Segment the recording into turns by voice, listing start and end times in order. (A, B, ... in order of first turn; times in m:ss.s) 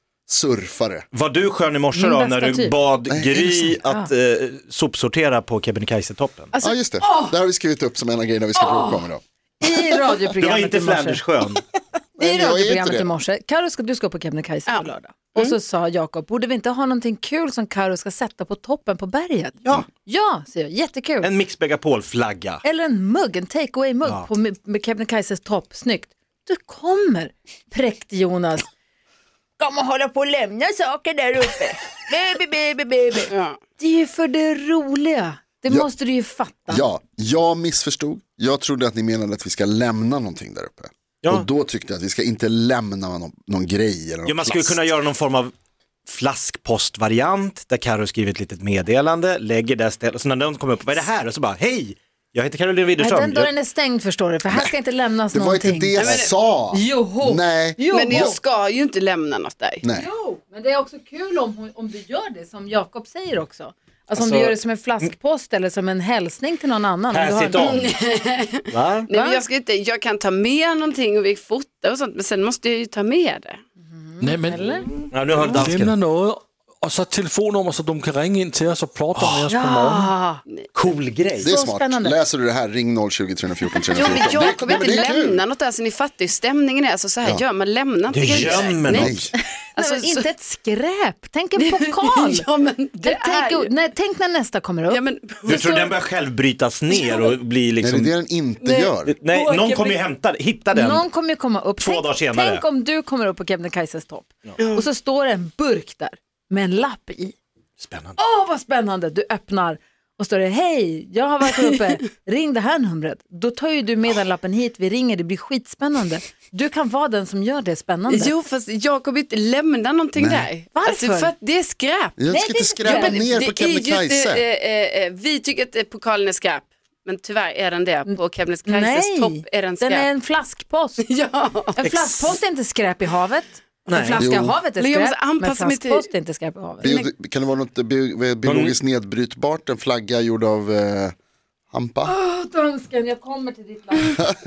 0:00.3-0:01.1 A
0:01.1-0:06.5 B
0:01.9-0:02.7 C
0:03.1-0:03.4 A
0:03.4-0:04.1 C
0:06.6-0:10.1 A
0:07.0-0:07.3 C
0:08.6-0:09.0 C
0:09.6-0:11.2 C
0:10.4-0:11.6 B
0:12.2-0:13.1 A
0:12.2-0:21.3 C
0:14.7-0:15.5 D
0:21.2-0:22.6 B
0:22.6-0:28.7 C
0:29.6-0:36.8 C
0:33.3-0:33.6 D
0:36.7-0:44.8 A
0:44.2-0:45.5 B
0:46.0-0:53.5 B
0:53.0-0:56.1 C
0:54.5-0:54.8 A
0:55.3-0:58.4 A
0:56.0-0:56.3 D
0:56.7-0:58.4 C
0:57.9-0:59.8 D
0:59.8-1:00.1 A
0:59.9-1:07.8 C
1:04.1-1:04.5 B
1:07.1-1:07.9 B
1:07.6-1:13.6 D
1:08.7-1:09.1 B
1:09.1-1:09.4 C
1:13.9-1:14.9 C
1:14.2-1:14.8 E
1:15.1-1:15.9 B
1:15.4-1:20.1 E
1:19.1-1:19.5 B
1:19.5-1:20.4 C
1:20.7-1:21.5 B
1:21.4-1:25.4 A
1:21.4-1:22.2 C
1:23.9-1:29.2 D
1:24.0-1:24.5 C
1:28.1-1:29.1 B
1:28.4-1:29.3 A
1:29.3-1:32.5 C
1:29.7-1:30.3 D
1:31.6-1:33.7 D
1:33.0-1:35.0 C
1:34.9-1:35.9 D
1:35.4-1:38.1 B
1:36.9-1:37.3 D
1:37.8-1:39.1 A
1:38.6-1:40.0 C
1:39.0-1:41.1 B
1:40.7-1:47.4 C
1:41.8-1:42.6 B
1:44.6-1:44.8 D
1:47.8-1:48.2 B
1:48.2-1:58.3 C
1:58.1-2:02.2 D
2:00.2-2:00.5 A
2:00.7-2:01.3 C
2:02.2-2:04.4 A
2:02.2-2:03.3 C
2:02.8-2:10.1 D
2:08.1-2:11.0 C
2:11.0-2:11.7 D
2:11.8-2:16.9 C
2:11.8-2:12.4 B
2:13.9-2:14.2 B
2:14.1-2:14.6 A
2:14.8-2:16.1 D
2:16.8-2:21.1 A
2:16.8-2:17.1 D
2:18.4-2:18.8 B
2:21.7-2:22.1 A
2:22.0-2:24.2 C